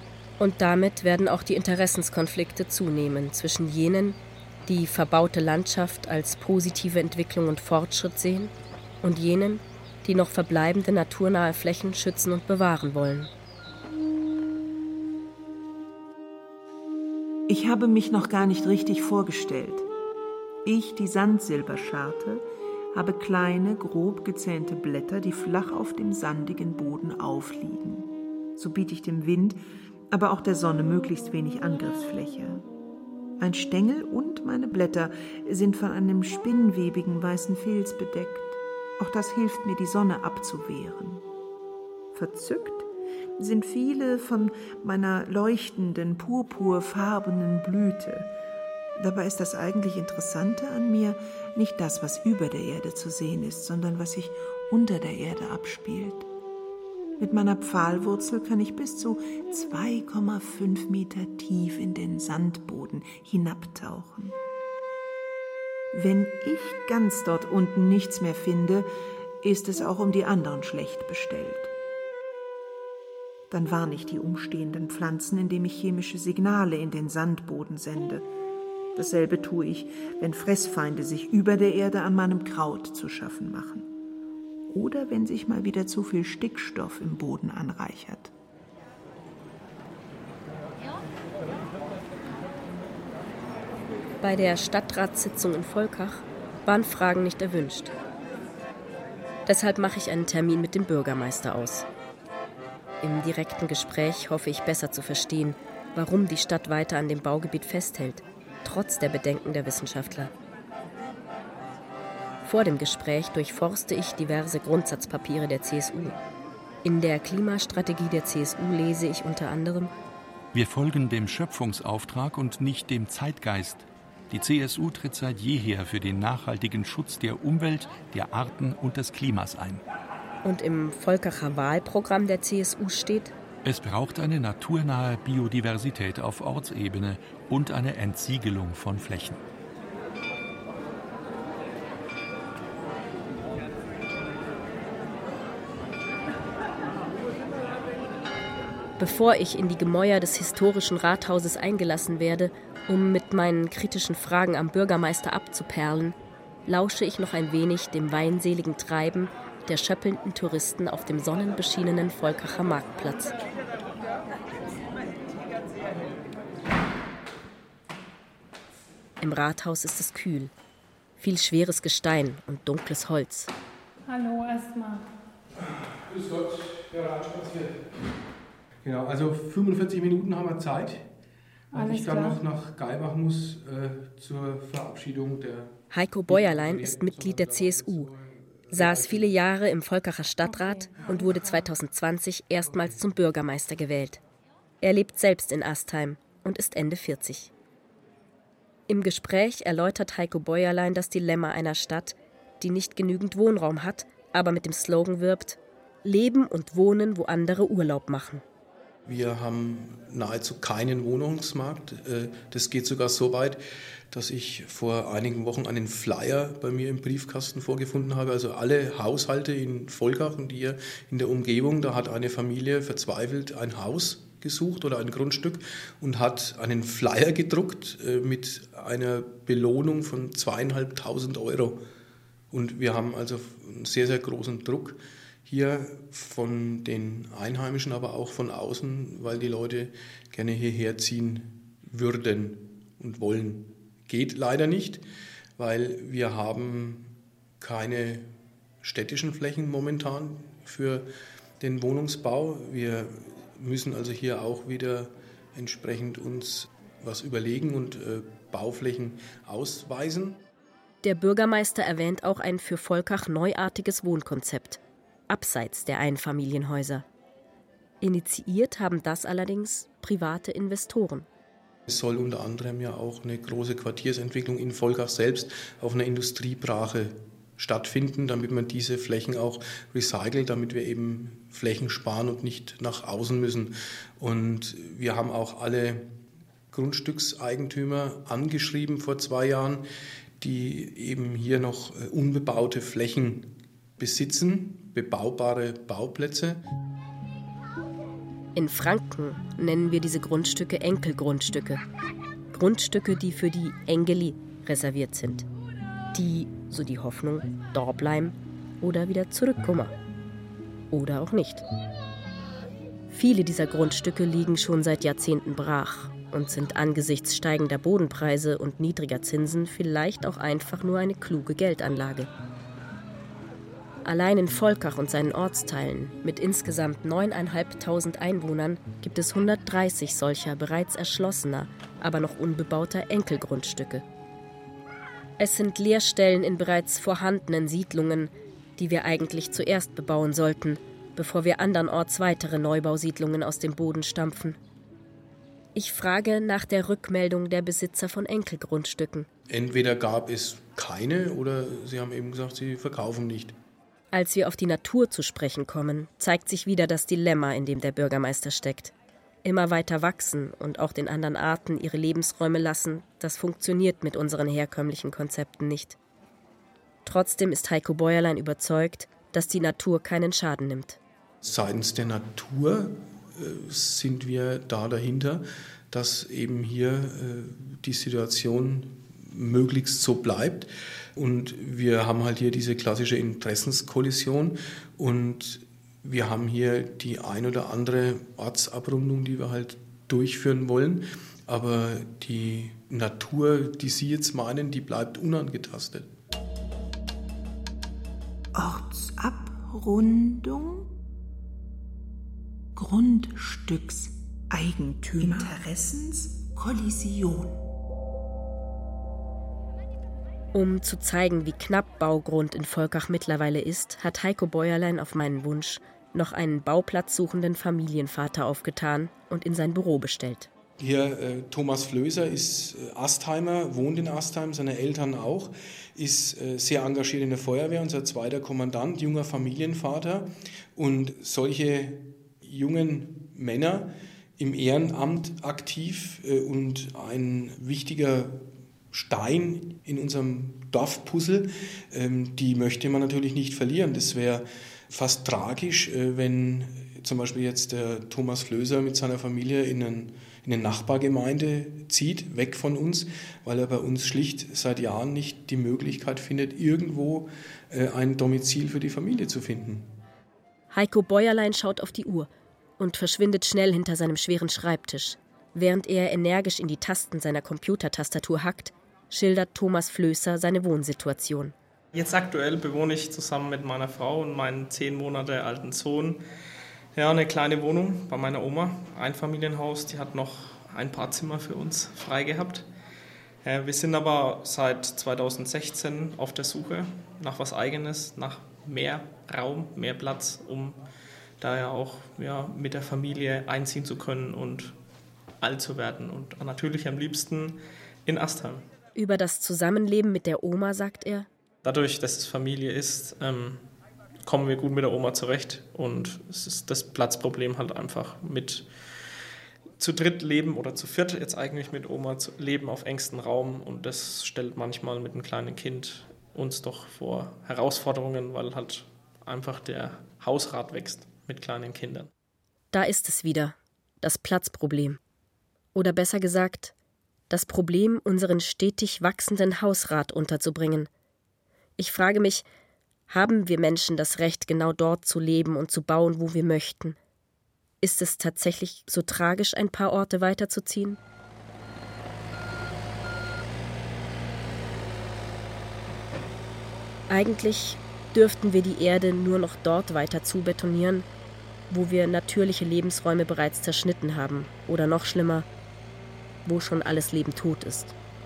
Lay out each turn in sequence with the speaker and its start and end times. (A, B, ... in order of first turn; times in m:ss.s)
0:00.4-0:13.3 A
0:17.5-0:19.9 B
0:20.6-0:29.6 B
0:30.1-0:32.6 B
0:33.4-0:41.2 B
0:42.1-0:42.9 B
0:43.4-0:48.3 B
0:49.0-0:56.3 B
0:57.2-1:04.4 B
1:05.9-1:08.9 B
1:09.4-1:11.7 B
1:13.5-1:18.3 B
1:18.9-1:23.9 B
1:24.7-1:28.3 B
1:34.2-1:37.9 A
1:39.4-1:41.9 A
1:43.0-1:50.3 A
1:52.4-1:56.2 A
1:56.8-1:59.9 A
2:00.5-2:09.8 C
2:10.4-2:13.3 A
2:13.6-2:19.4 C
2:29.0-2:36.1 A
2:36.7-2:43.3 A
2:49.2-2:50.5 A
2:51.2-2:53.5 A
2:54.1-2:55.0 D
2:55.6-2:57.9 E
2:58.8-3:01.1 E
3:01.7-3:02.4 D
3:01.7-3:09.4 E
3:05.9-3:08.1 A
3:08.7-3:14.2 A
3:10.4-3:11.7 D
3:14.8-3:17.5 A
3:18.9-3:28.4 A
3:29.0-3:51.8 E
3:52.5-4:05.0 E
4:05.6-4:08.3 E
4:08.8-4:11.1 E
4:11.6-4:20.4 E
4:21.0-4:27.0 A
4:28.0-4:31.3 A
4:31.9-4:46.1 E
4:46.7-4:49.8 E
4:50.4-4:56.6 E
4:58.5-5:01.8 A
5:02.5-5:05.4 A
5:06.1-5:09.9 A
5:10.9-5:11.6 A
5:13.1-5:22.3 A
5:24.0-5:34.0 A
5:35.4-5:44.6 A
5:45.7-5:49.3 A
5:49.5-5:53.5 E
5:54.1-5:58.9 A
5:59.4-6:06.0 A
6:07.0-6:11.0 A
6:11.4-6:36.1 E
6:38.5-6:40.9 B
6:42.8-6:47.6 B
6:50.5-7:00.5 A
7:00.8-7:39.9 E
7:40.7-7:51.5 A
7:51.9-7:56.2 F
7:56.9-8:02.7 F
8:03.4-8:10.8 F
8:11.4-8:14.8 F
8:15.4-8:18.6 F
8:18.9-8:21.3 A
8:21.6-8:23.6 F
8:24.2-8:28.7 F
8:29.8-8:42.1 F
8:42.7-8:45.0 A
8:45.7-8:46.7 A
8:47.3-8:50.9 A
8:51.8-8:52.4 A
8:53.1-8:57.0 A
8:57.8-9:01.0 A
9:07.1-9:11.1 A
9:11.7-9:15.5 A
9:16.4-9:17.9 A